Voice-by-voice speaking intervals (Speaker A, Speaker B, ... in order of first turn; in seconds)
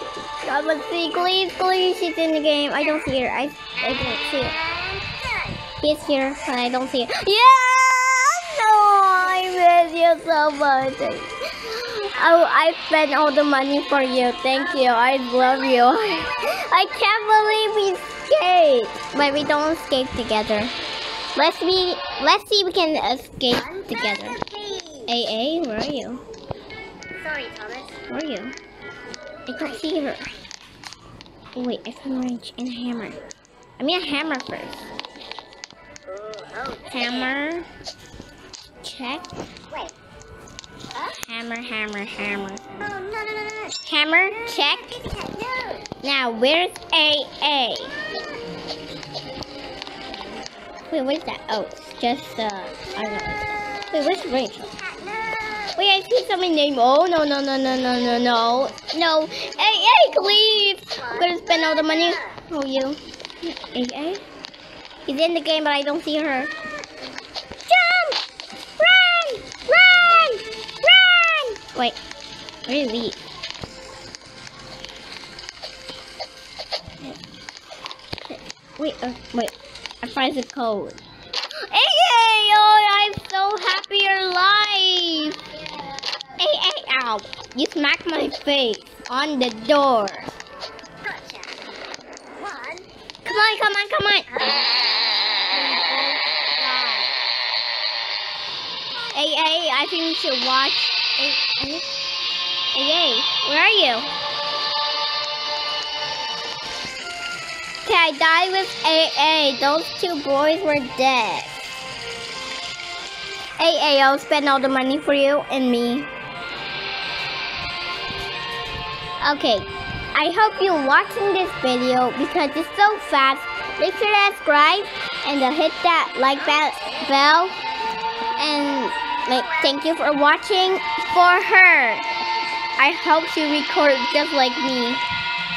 Speaker A: 0.4-4.6, 5.8-20.7, 21.4-24.4, 25.1-26.2, 28.1-28.6, 29.5-30.3, 31.6-33.2, 33.8-34.8, 36.9-37.7, 38.8-39.3, 41.2-42.6, 43.8-45.0, 46.0-48.0, 50.9-54.7, 55.8-64.2, 65.1-66.5, 67.7-68.2, 68.8-72.0, 72.7-73.2, 78.3-81.0, 81.7-85.4, 86.4-90.3, 93.2-94.3, 95.5-97.1, 99.1-101.8, 102.7-104.1, 107.8-111.6, 113.6-116.1, 119.2-127.5, 128.4-132.0, 132.8-135.0
Speaker B: 4.6-5.6, 23.6-25.1, 27.2-27.9, 36.1-37.3, 42.9-43.8, 45.0-45.9, 54.9-55.8, 61.0-62.3, 91.0-91.6, 92.4-92.9, 94.3-94.6